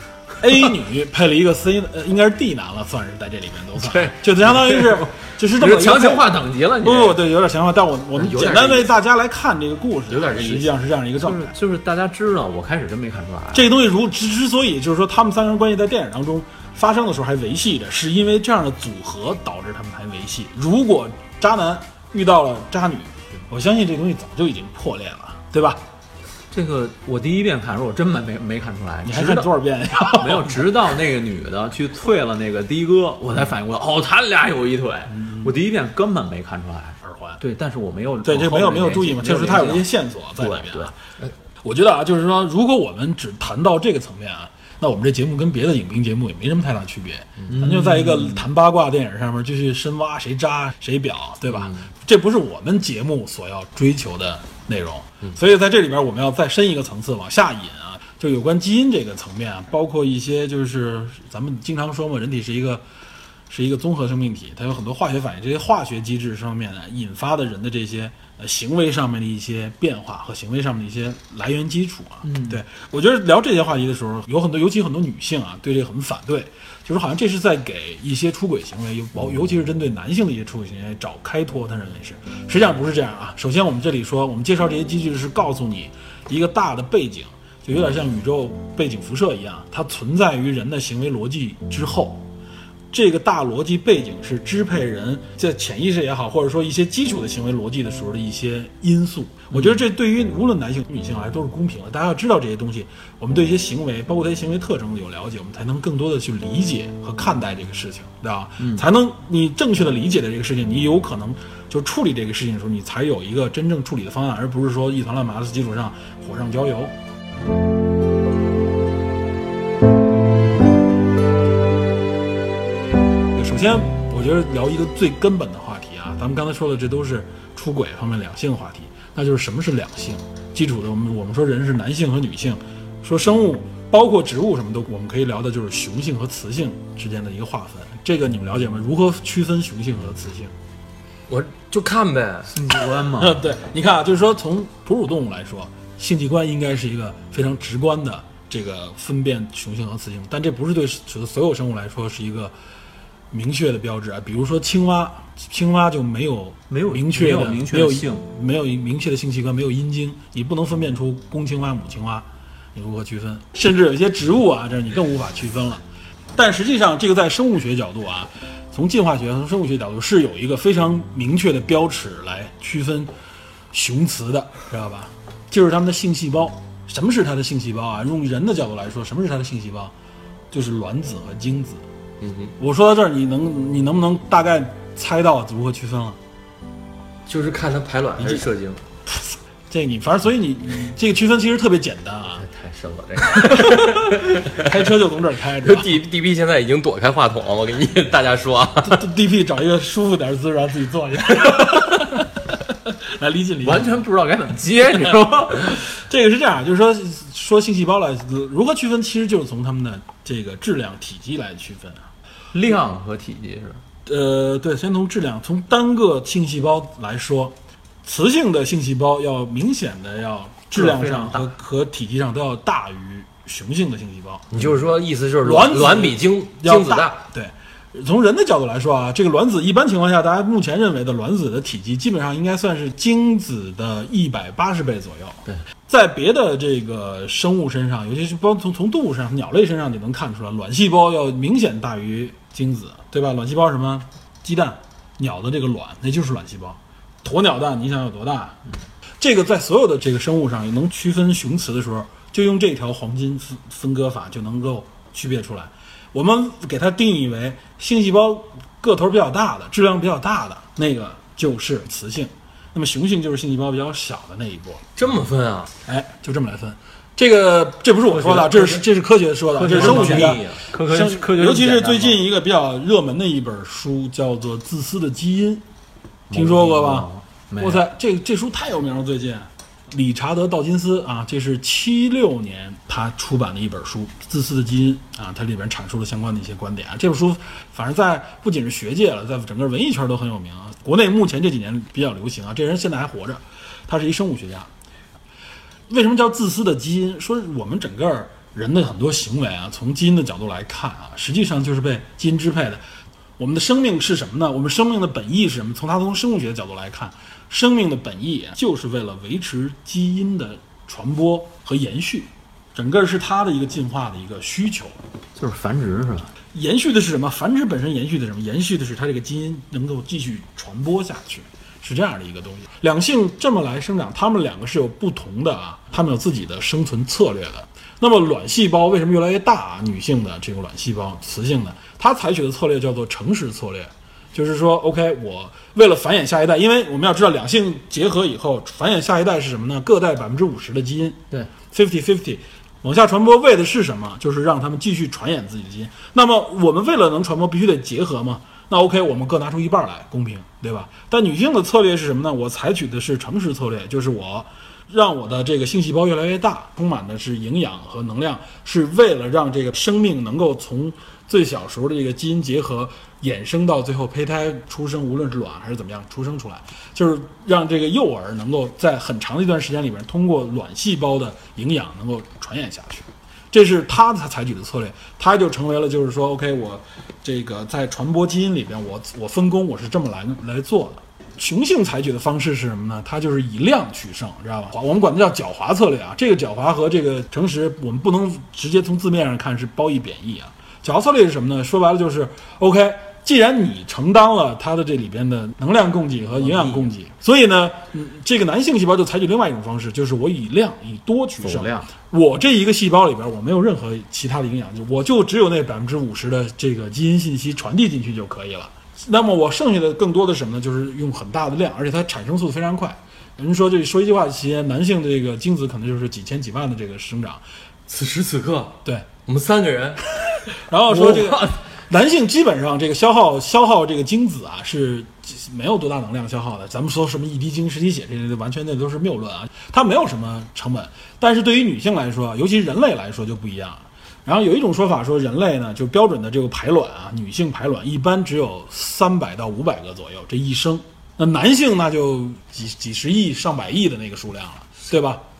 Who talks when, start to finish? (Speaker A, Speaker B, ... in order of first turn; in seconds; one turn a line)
Speaker A: 0.4-11.5
Speaker B: 3.8-5.0
Speaker B: 5.6-7.2
Speaker C: 8.2-8.9
Speaker C: 10.1-10.7
Speaker B: 11.2-13.7
Speaker A: 13.5-25.8
Speaker B: 26.5-40.9
Speaker A: 29.1-30.7
Speaker A: 35.1-35.5
Speaker A: 37.0-37.4
Speaker A: 38.2-41.0
Speaker A: 41.6-62.8
Speaker B: 47.5-48.4
Speaker A: 63.5-92.3
Speaker B: 72.3-72.6
Speaker A: 92.9-117.0
Speaker B: 99.5-99.8
Speaker B: 108.6-108.8
Speaker A: 123.3-140.5
Speaker C: 141.3-142.5
Speaker B: 142.5-143.4
Speaker A: 143.1-152.5
Speaker A: 153.3-165.8
Speaker B: 156.7-158.3
Speaker A: 166.4-173.1
Speaker A: 173.7-179.9
Speaker A: 180.5-181.8
Speaker C: 182.2-182.5
Speaker A: 182.6-186.2
Speaker C: 187.3-188.8
Speaker A: 188.2-188.4
Speaker A: 189.1-192.5
Speaker C: 192.4-194.8
Speaker A: 193.4-195.9
Speaker C: 195.6-199.1
Speaker A: 198.8-202.3
Speaker A: 202.8-204.0
Speaker B: 203.6-205.8
Speaker A: 205.8-212.1
Speaker B: 212.5-213.8
Speaker A: 214.1-224.6
Speaker B: 220.7-221.5
Speaker C: 224.5-227.2
Speaker A: 225.4-248.6
Speaker A: 249.2-264.9
Speaker C: 265.0-265.7
Speaker A: 265.9-275.6
Speaker B: 268.1-268.9
Speaker B: 269.5-272.2
Speaker C: 269.7-270.4
Speaker B: 276.3-277.9
Speaker A: 276.3-294.7
Speaker A: 295.9-302.8
Speaker A: 303.4-315.0
Speaker B: 315.4-316.3
Speaker A: 316.5-417.4
Speaker B: 396.4-396.9
Speaker B: 401.4-401.9
Speaker C: 417.9-420.0
Speaker A: 420.6-445.2
Speaker C: 420.9-421.6